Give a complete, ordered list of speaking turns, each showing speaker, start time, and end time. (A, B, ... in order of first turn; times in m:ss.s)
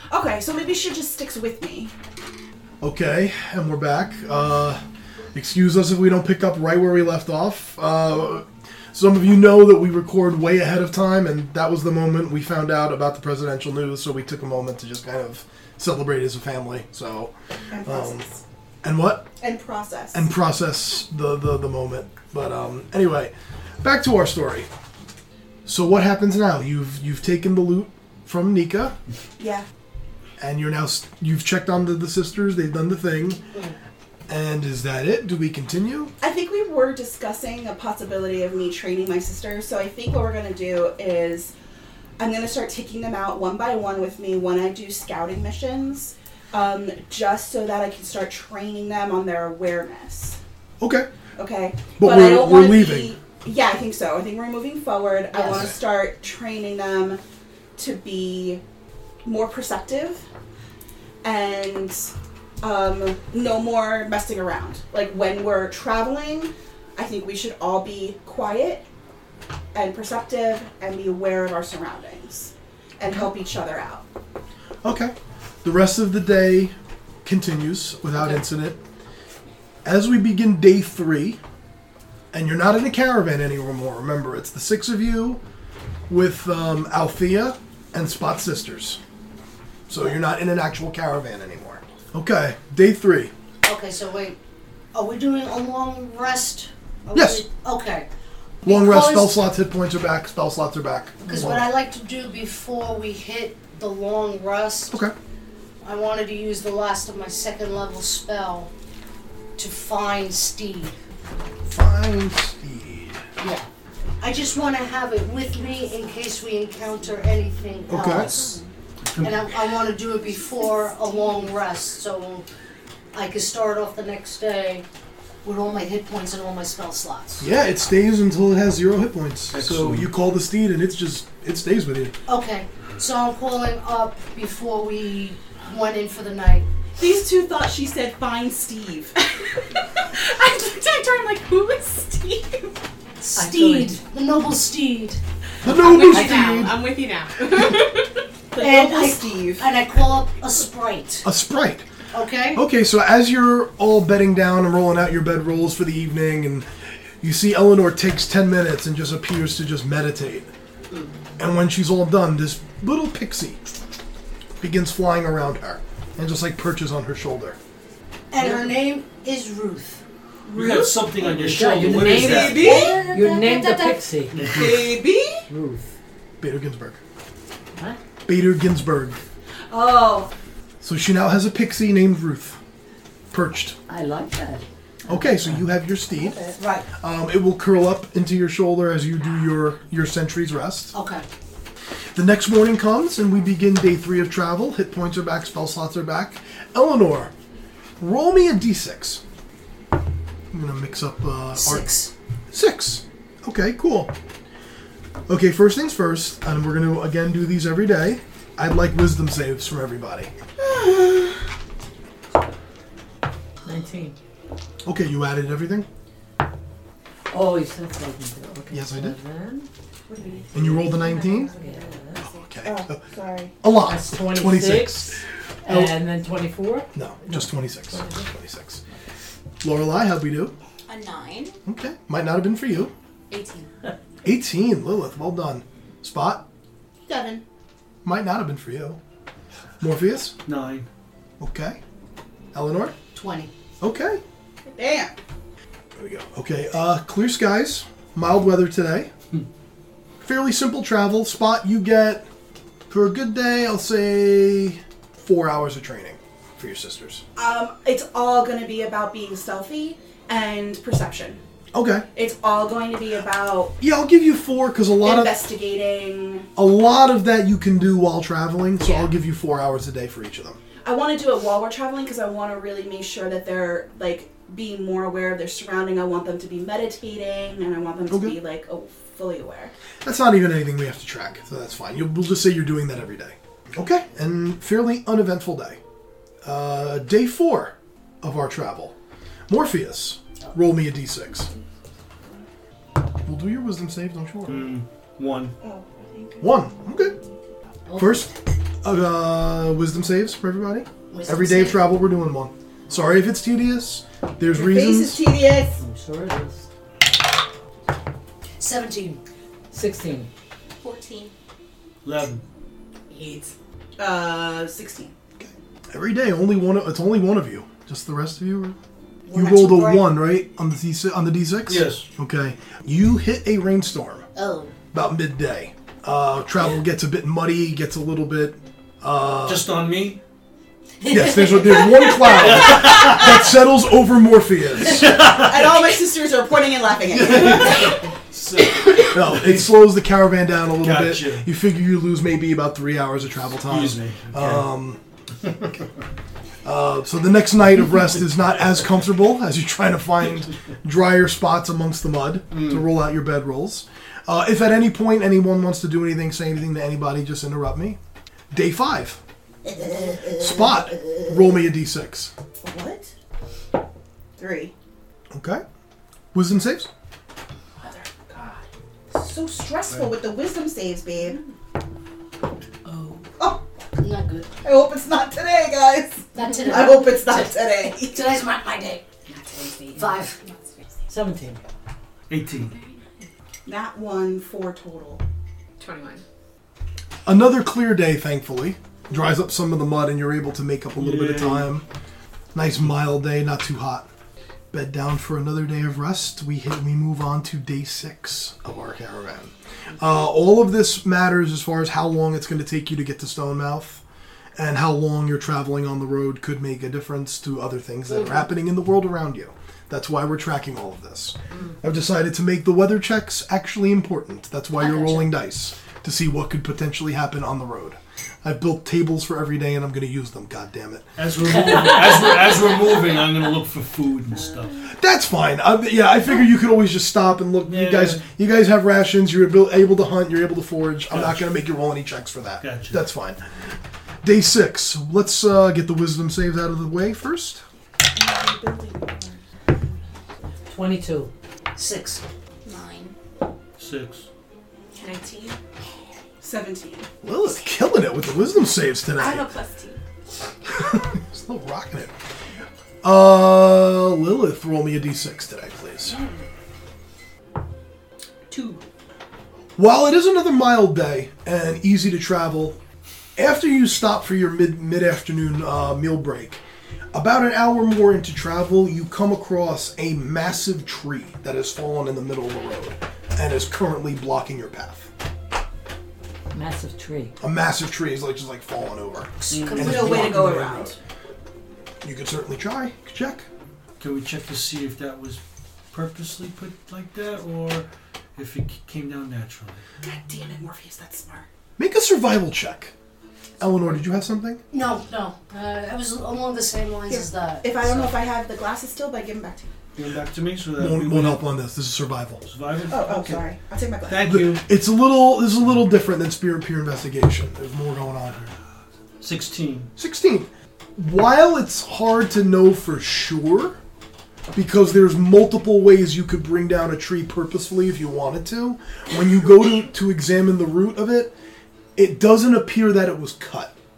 0:00.1-0:01.9 A
0:02.8-0:04.8 B
0:05.3-0:17.3 B
0:17.7-0:18.4 A
0:17.8-0:18.3 B
0:18.8-0:19.3 B
0:19.4-0:20.3 A
0:20.1-0:24.7 B
0:25.7-0:29.0 B
0:29.4-0:29.7 A
0:30.4-0:33.4 B
0:34.3-0:36.1 B
0:36.2-0:41.5 A
0:42.2-0:50.4 A
0:50.8-0:51.1 B
0:51.4-0:57.2 A
0:52.0-0:53.1 B
0:55.3-0:55.7 C
0:57.8-0:58.6 A
0:59.2-1:00.2 A
1:01.2-1:08.8 A
1:09.7-1:14.1 A
1:14.8-1:18.8 B
1:19.8-1:21.4 B
1:22.3-1:25.4 B
1:26.1-1:29.0 B
1:29.9-1:33.3 B
1:33.6-1:34.4 C
1:34.9-1:38.1 C
1:37.1-1:37.4 B
1:38.6-1:41.7 B
1:38.6-1:39.4 C
1:41.2-1:45.0 C
1:45.8-1:48.7 C
1:49.6-1:51.0 C
1:51.7-1:53.2 B
1:53.4-1:53.7 C
1:54.2-1:58.6 C
1:57.9-1:58.3 B
1:59.1-1:59.4 D
1:59.2-2:02.5 C
2:03.1-2:04.9 C
2:05.4-2:07.5 C
2:07.4-2:12.2 B
2:09.5-2:10.1 D
2:12.3-2:16.7 C
2:17.0-2:22.7 A
2:23.2-2:25.2 C
2:23.4-2:24.0 E
2:25.6-2:26.7 B
2:25.6-2:28.2 F
2:28.5-2:29.8 A
2:28.6-2:31.3 C
2:31.2-2:31.9 B
2:32.1-2:32.6 C
2:32.5-2:36.7 B
2:37.2-2:40.5 B
2:41.4-2:43.6 B
2:44.6-2:47.6 B
2:48.3-2:50.0 C
2:50.5-2:51.1 A
2:50.5-2:52.7 D
2:51.4-2:54.6 E
2:51.6-2:54.1 C
2:52.2-2:53.0 A
2:54.3-2:54.8 D
2:54.5-2:55.4 A
2:55.5-2:55.9 E
2:56.4-2:57.0 B
2:58.3-2:59.2 B
2:59.7-3:00.3 A
3:00.8-3:02.6 B
3:03.3-3:03.8 B
3:03.9-3:05.6 E
3:05.1-3:06.4 B
3:06.2-3:06.6 A
3:06.6-3:06.9 C
3:07.0-3:10.9 B
3:10.9-3:11.2 C
3:12.2-3:17.3 B
3:18.0-3:19.2 B
3:20.5-3:21.9 B
3:21.6-3:22.1 C
3:22.5-3:24.1 B
3:25.3-3:30.3 B
3:30.6-3:31.4 A
3:33.6-3:34.2 E
3:34.8-3:35.9 B
3:37.3-3:39.7 E
3:38.7-3:39.2 B
3:40.1-3:40.6 A
3:40.5-3:41.5 B
3:40.6-3:40.9 E
3:40.7-3:42.4 F
3:41.5-3:42.3 E
3:42.2-3:43.0 B
3:42.6-3:43.6 A
3:43.6-3:46.0 B
3:43.8-3:48.3 E
3:47.0-3:48.8 B
3:49.6-3:50.5 B
3:50.9-3:51.6 G
3:51.7-3:52.9 B
3:53.3-3:53.7 G
3:54.2-3:56.4 B
3:57.1-3:57.4 A
3:58.0-3:59.0 B
3:59.8-4:00.3 B
4:00.4-4:00.9 D
4:01.4-4:01.8 B
4:02.5-4:03.0 B
4:03.1-4:03.5 C
4:03.8-4:04.2 B
4:04.7-4:05.2 A
4:06.0-4:09.1 B
4:10.2-4:12.3 B
4:12.9-4:17.2 B
4:17.4-4:21.4 A
4:21.7-4:22.1 B
4:22.1-4:23.8 A
4:23.8-4:25.4 B
4:25.0-4:26.5 A
4:26.6-4:30.6 B
4:28.8-4:29.1 A
4:30.8-4:39.7 A
4:38.1-4:38.4 B
4:40.0-4:45.8 B
4:46.4-4:48.9 B
4:49.5-4:51.5 B
4:53.2-4:54.7 B
4:54.5-4:55.6 D
4:55.6-4:56.7 A
4:56.4-4:57.2 B
4:57.9-4:58.3 C
4:58.0-5:05.2 B
5:01.1-5:02.0 C
5:04.5-5:05.8 A
5:05.8-5:06.7 E
5:08.6-5:09.2 C
5:09.7-5:10.3 E
5:10.8-5:11.3 G
5:12.0-5:12.4 D
5:13.1-5:13.5 F
5:14.0-5:15.1 A
5:15.4-5:18.8 B
5:19.3-5:20.2 C
5:19.3-5:24.3 B
5:21.6-5:22.1 D
5:24.4-5:24.7 C
5:24.9-5:29.6 B
5:29.4-5:30.2 D
5:31.0-5:32.5 C
5:31.1-5:35.3 B
5:32.2-5:33.4 D
5:34.9-5:35.9 D
5:35.1-5:38.1 A
5:37.1-5:39.7 D
5:39.1-5:45.0 B
5:40.8-5:41.5 D
5:43.6-5:44.7 D
5:46.6-5:58.0 B
5:52.5-5:52.9 D
5:58.5-5:59.2 B
5:59.6-6:01.3 A
6:00.4-6:02.3 B
6:02.6-6:03.1 A
6:04.4-6:04.7 A
6:05.3-6:05.6 B
6:06.3-6:06.9 B
6:07.8-6:11.4 A
6:09.9-6:10.1 D
6:14.0-6:14.5 C
6:14.6-6:18.3 A
6:16.3-6:19.0 C
6:19.3-6:21.0 F
6:20.0-6:20.4 C
6:21.1-6:21.6 E
6:22.3-6:22.8 D
6:22.6-6:23.3 F
6:23.6-6:25.2 A
6:25.8-6:26.2 F
6:27.2-6:31.8 B
6:31.0-6:31.7 D
6:32.5-6:34.1 B
6:34.7-6:44.0 B
6:44.6-7:01.1 B
6:54.8-6:55.3 C
7:01.2-7:04.8 D
7:04.9-7:13.4 B
7:07.6-7:08.3 D
7:11.1-7:11.5 D
7:12.6-7:13.0 D
7:14.2-7:17.6 B
7:18.1-7:20.0 A
7:20.7-7:21.3 E
7:21.8-7:22.2 C
7:22.6-7:23.1 G
7:23.8-7:24.3 D
7:25.0-7:25.6 F
7:26.4-7:27.1 A
7:27.2-7:29.5 B
7:29.1-7:30.0 F
7:30.7-7:32.1 B
7:33.0-7:36.2 B
7:39.8-7:42.8 B
7:43.4-7:46.6 B
7:47.1-7:55.1 B
7:56.5-7:57.4 E
7:57.4-8:01.0 B
7:59.4-8:00.5 C
7:59.5-8:00.3 D
7:59.7-8:01.0 A
8:02.0-8:03.5 B
8:04.0-8:09.8 D
8:10.0-8:11.5 A
8:11.8-8:12.9 B
8:13.6-8:14.6 B
8:14.7-8:18.1 C
8:17.1-8:19.7 A
8:20.0-8:21.4 D
8:20.8-8:22.4 B
8:22.4-8:23.5 D
8:22.9-8:24.3 A
8:24.1-8:24.7 D
8:24.3-8:28.4 B
8:29.2-8:29.9 D
8:30.0-8:33.8 B
8:34.5-8:41.3 B
8:42.0-8:43.7 B